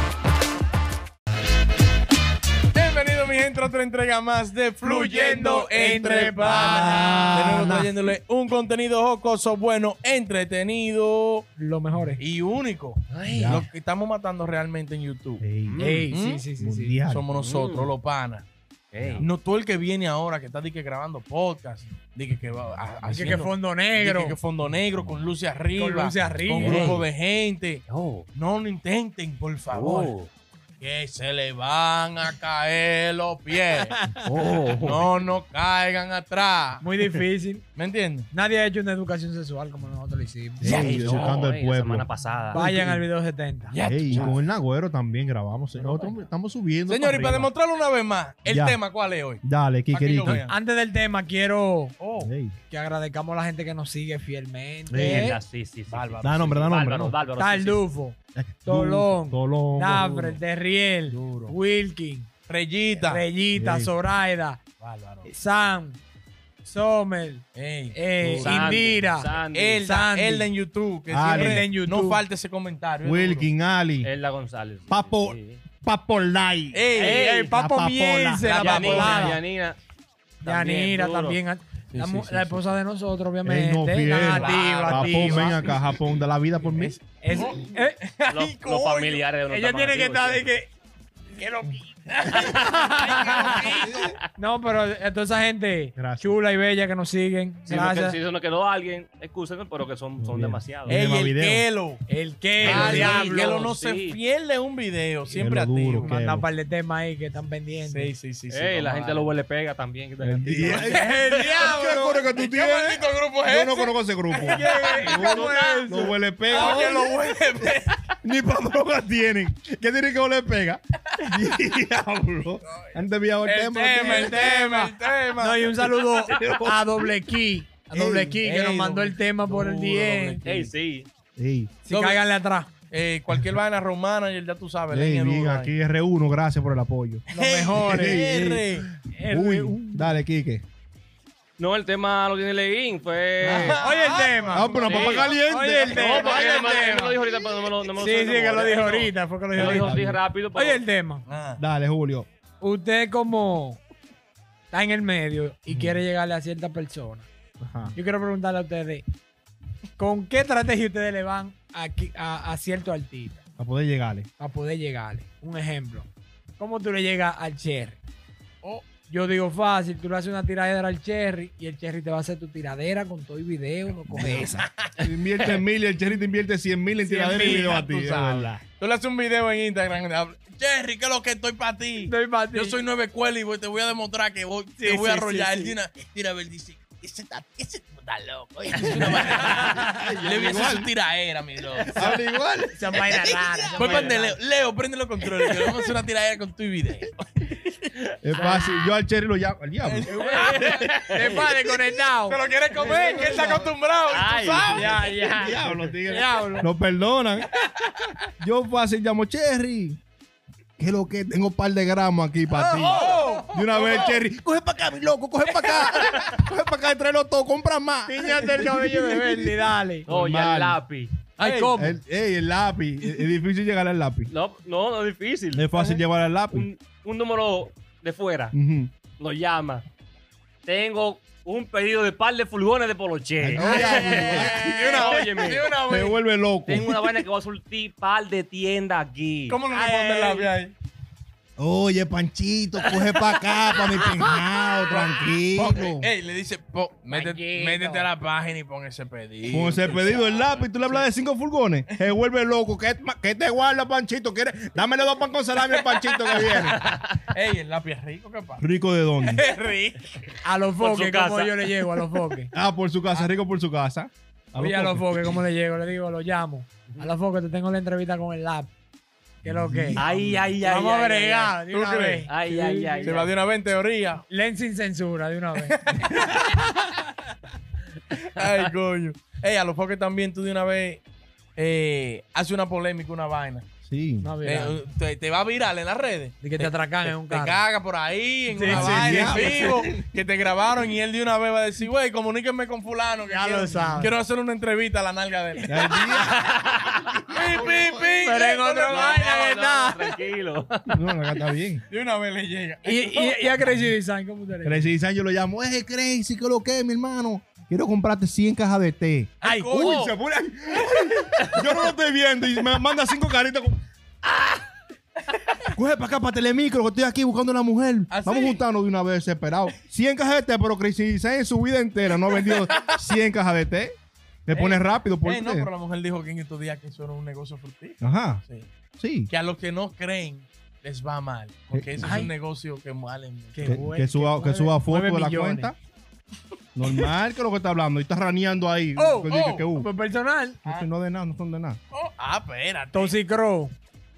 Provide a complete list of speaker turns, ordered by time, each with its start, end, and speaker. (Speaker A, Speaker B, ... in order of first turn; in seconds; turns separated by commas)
Speaker A: 2.7-11.5, Speaker B: 4.8-7.4, Speaker C: 6.4-7.9, Speaker B: 11.6-12.2, Speaker A: 12.2-15.4, Speaker D: 13.1-13.6, Speaker C: 13.3-13.7, Speaker C: 15.4-17.2, Speaker D: 15.7-16.1, Speaker B: 15.8-16.9, Speaker A: 16.1-16.4, Speaker A: 17.1-18.5, Speaker D: 17.3-17.9, Speaker D: 18.9-19.3, Speaker A: 19.1-30.1, Speaker B: 23.1-24.4, Speaker B: 25.7-26.9, Speaker D: 26.6-27.1, Speaker D: 27.9-28.2, Speaker D: 29.7-30.3, Speaker A: 30.8-33.9, Speaker B: 33.7-34.2, Speaker D: 34.2-35.1, Speaker A: 34.8-36.8, Speaker B: 36.8-37.6, Speaker A: 37.7-38.3, Speaker B: 38.3-41.3, Speaker C: 40.6-43.1, Speaker D: 40.6-42.6, Speaker B: 42.5-43.7, Speaker D: 43.7-44.4, Speaker A: 43.8-44.4, Speaker C: 43.8-47.5, Speaker A: 45.7-46.1, Speaker A: 46.9-50.5, Speaker C: 48.5-48.8, Speaker C: 49.4-50.4, Speaker B: 50.2-52.0, Speaker A: 52.0-52.3, Speaker C: 52.2-52.5, Speaker B: 52.6-55.4, Speaker C: 54.9-55.3, Speaker D: 55.0-57.8, Speaker A: 55.9-56.6, Speaker C: 56.2-57.2, Speaker B: 57.4-62.3, Speaker C: 58.4-60.4, Speaker A: 61.2-61.5, Speaker A: 62.5-63.2, Speaker B: 63.1-64.6, Speaker C: 63.5-63.9, Speaker A: 64.8-65.3, Speaker B: 65.2-66.0, Speaker B: 66.6-70.5, Speaker A: 67.5-68.0, Speaker C: 68.2-68.8, Speaker D: 68.3-69.8, Speaker A: 69.5-73.5, Speaker C: 71.1-71.7, Speaker B: 71.3-72.2, Speaker C: 73.0-74.1, Speaker D: 74.0-75.6, Speaker C: 74.9-76.9, Speaker A: 76.7-77.5, Speaker B: 77.0-79.4, Speaker D: 77.0-77.4, Speaker C: 77.4-79.0, Speaker A: 78.4-79.4, Speaker D: 78.5-79.8, Speaker B: 80.4-85.8, Speaker D: 80.4-81.4, Speaker A: 81.9-82.8, Speaker C: 83.4-87.0, Speaker A: 84.1-89.2, Speaker B: 87.2-88.0, Speaker D: 88.3-90.5, Speaker B: 89.5-90.7, Speaker B: 91.3-98.2, Speaker A: 92.2-94.1, Speaker D: 92.5-92.8, Speaker C: 93.7-94.2, Speaker C: 96.0-96.3, Speaker D: 97.7-101.0, Speaker C: 100.2-101.7, Speaker A: 100.9-102.0, Speaker B: 102.1-103.7, Speaker D: 102.6-104.2, Speaker A: 102.6-106.1, Speaker C: 102.6-103.1, Speaker C: 105.3-106.5, Speaker B: 106.0-108.1, Speaker A: 107.8-109.3, Speaker D: 108.5-111.0, Speaker C: 110.2-117.1, Speaker A: 110.7-118.0, Speaker B: 110.9-112.2, Speaker B: 114.4-116.9, Speaker D: 115.1-115.5, Speaker C: 118.2-124.9, Speaker A: 122.7-126.5, Speaker B: 124.0-124.6, Speaker B: 125.4-130.4, Speaker C: 126.4-126.7, Speaker C: 127.9-128.4, Speaker A: 128.4-130.7, Speaker D: 130.4-131.1, Speaker C: 131.3-131.7, Speaker B: 131.8-132.7, Speaker A: 131.9-132.2, Speaker A: 132.9-135.7, Speaker C: 134.9-137.2, Speaker A: 137.3-138.9, Speaker B: 137.3-138.3, Speaker C: 137.8-140.6, Speaker B: 139.1-140.1, Speaker D: 141.6-143.9, Speaker A: 143.4-145.3, Speaker C: 143.4-143.8, Speaker B: 143.8-147.2, Speaker C: 144.4-146.1, Speaker D: 144.9-145.3, Speaker D: 145.9-150.8, Speaker A: 145.9-147.3, Speaker B: 148.0-151.2, Speaker C: 149.5-150.2, Speaker A: 151.2-151.6, Speaker C: 151.6-152.3, Speaker B: 152.6-153.8, Speaker B: 154.7-157.3, Speaker C: 155.7-156.0, Speaker C: 157.6-157.9, Speaker B: 157.9-159.0, Speaker B: 160.0-163.4, Speaker C: 163.6-164.3, Speaker B: 164.4-168.0, Speaker B: 169.1-174.5, Speaker C: 174.1-178.6, Speaker B: 177.0-177.7, Speaker A: 177.2-192.2, Speaker B: 182.1-182.8, Speaker B: 184.8-185.7, Speaker B: 189.5-189.8, Speaker C: 189.8-190.9, Speaker C: 191.9-193.0, Speaker B: 192.7-194.4, Speaker A: 193.3-197.4, Speaker D: 193.8-194.2, Speaker D: 195.3-195.8, Speaker D: 198.1-198.9, Speaker C: 198.2-200.1, Speaker A: 199.8-201.4, Speaker D: 200.2-201.3, Speaker B: 200.2-203.7, Speaker A: 202.2-205.2, Speaker C: 202.8-203.6, Speaker D: 204.1-205.8, Speaker C: 204.7-207.5, Speaker B: 204.7-205.5, Speaker B: 206.1-206.7, Speaker C: 208.2-210.0, Speaker C: 210.8-220.8, Speaker B: 212.5-213.4, Speaker A: 212.8-214.2, Speaker A: 215.5-216.1, Speaker B: 218.1-220.1, Speaker D: 220.1-221.2, Speaker B: 221.4-222.0, Speaker A: 221.4-221.8, Speaker C: 221.7-224.3, Speaker D: 224.3-225.7, Speaker C: 225.5-226.7, Speaker D: 226.5-228.5, Speaker C: 228.5-228.9, Speaker D: 229.2-229.8, Speaker D: 230.7-235.8, Speaker C: 233.4-235.0, Speaker B: 233.6-235.1, Speaker A: 233.7-236.2, Speaker C: 235.8-237.0, Speaker D: 236.7-239.6, Speaker A: 239.5-240.7, Speaker B: 239.7-240.5, Speaker C: 241.6-246.1, Speaker A: 244.9-251.1, Speaker B: 247.1-248.1, Speaker C: 249.5-256.8, Speaker A: 255.6-256.7, Speaker D: 256.5-257.2, Speaker A: 257.2-258.7, Speaker C: 258.6-259.5, Speaker A: 259.2-260.3, Speaker B: 260.4-262.5, Speaker D: 260.8-262.0, Speaker C: 262.5-265.4, Speaker B: 264.5-268.7, Speaker B: 269.4-270.0, Speaker C: 269.4-270.1, Speaker D: 269.9-271.6, Speaker A: 270.1-270.4, Speaker B: 270.6-273.3, Speaker A: 271.6-272.3, Speaker D: 272.3-273.3, Speaker A: 273.0-274.2, Speaker B: 274.3-277.0, Speaker A: 275.6-276.4, Speaker A: 278.1-281.0, Speaker D: 278.4-278.7, Speaker A: 281.6-283.7, Speaker C: 283.8-284.3, Speaker B: 284.2-284.8, Speaker A: 284.4-296.1, Speaker B: 286.4-287.6, Speaker B: 288.5-289.7, Speaker C: 288.6-290.0, Speaker B: 293.3-294.1, Speaker C: 295.6-296.5, Speaker D: 296.1-297.1, Speaker C: 297.3-298.1, Speaker A: 297.3-299.6, Speaker B: 298.2-300.2, Speaker D: 298.8-301.1, Speaker C: 300.9-301.8, Speaker A: 301.9-303.7, Speaker B: 302.8-304.9, Speaker C: 304.6-313.8, Speaker A: 309.4-310.1, Speaker B: 309.4-309.9, Speaker D: 309.8-310.1, Speaker C: 315.7-323.9, Speaker A: 318.1-318.6, Speaker A: 322.4-322.9, Speaker C: 324.4-325.7, Speaker A: 324.5-328.7, Speaker C: 328.0-328.4, Speaker C: 329.0-329.3, Speaker A: 329.3-333.8, Speaker C: 331.7-332.2, Speaker B: 332.0-332.3, Speaker B: 333.5-335.7, Speaker C: 333.6-335.8, Speaker C: 336.7-339.9, Speaker B: 338.9-340.6, Speaker A: 339.2-339.7, Speaker C: 340.6-341.8, Speaker A: 341.9-343.1, Speaker B: 342.9-343.7